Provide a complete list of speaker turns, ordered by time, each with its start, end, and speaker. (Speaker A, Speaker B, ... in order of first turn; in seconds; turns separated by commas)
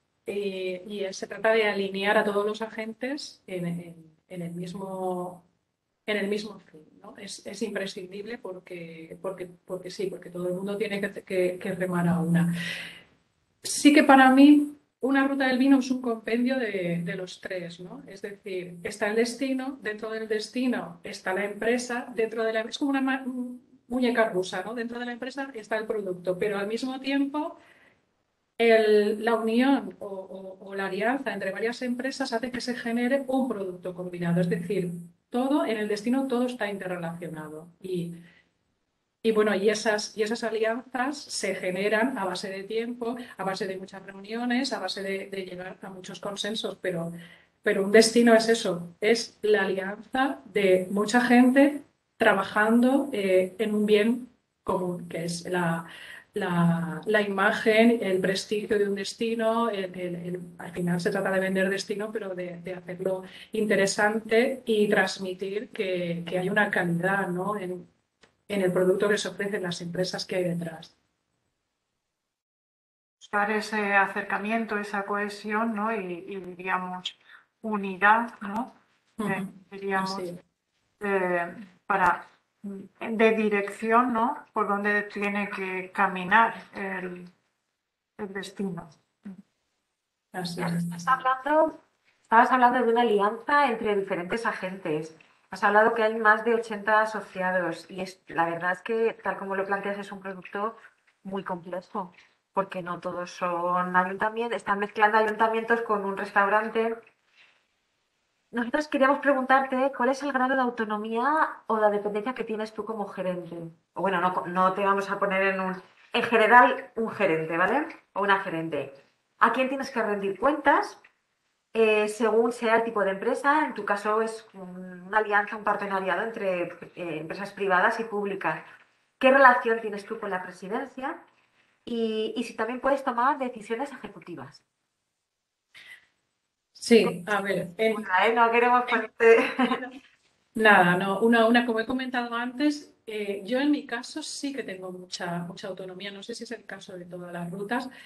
Speaker A: 0.3-5.5, Speaker A: 6.1-12.5, Speaker A: 13.6-27.6, Speaker A: 28.6-38.2, Speaker A: 39.2-67.9, Speaker A: 68.5-70.9, Speaker B: 73.2-80.3, Speaker A: 79.2-80.4, Speaker B: 81.0-87.3, Speaker B: 88.2-88.9, Speaker A: 90.3-91.2, Speaker C: 90.6-107.0, Speaker C: 108.5-121.0, Speaker C: 121.7-128.6, Speaker C: 129.2-131.2, Speaker C: 131.9-134.6, Speaker A: 136.8-138.1, Speaker C: 137.9-139.9, Speaker A: 140.6-147.9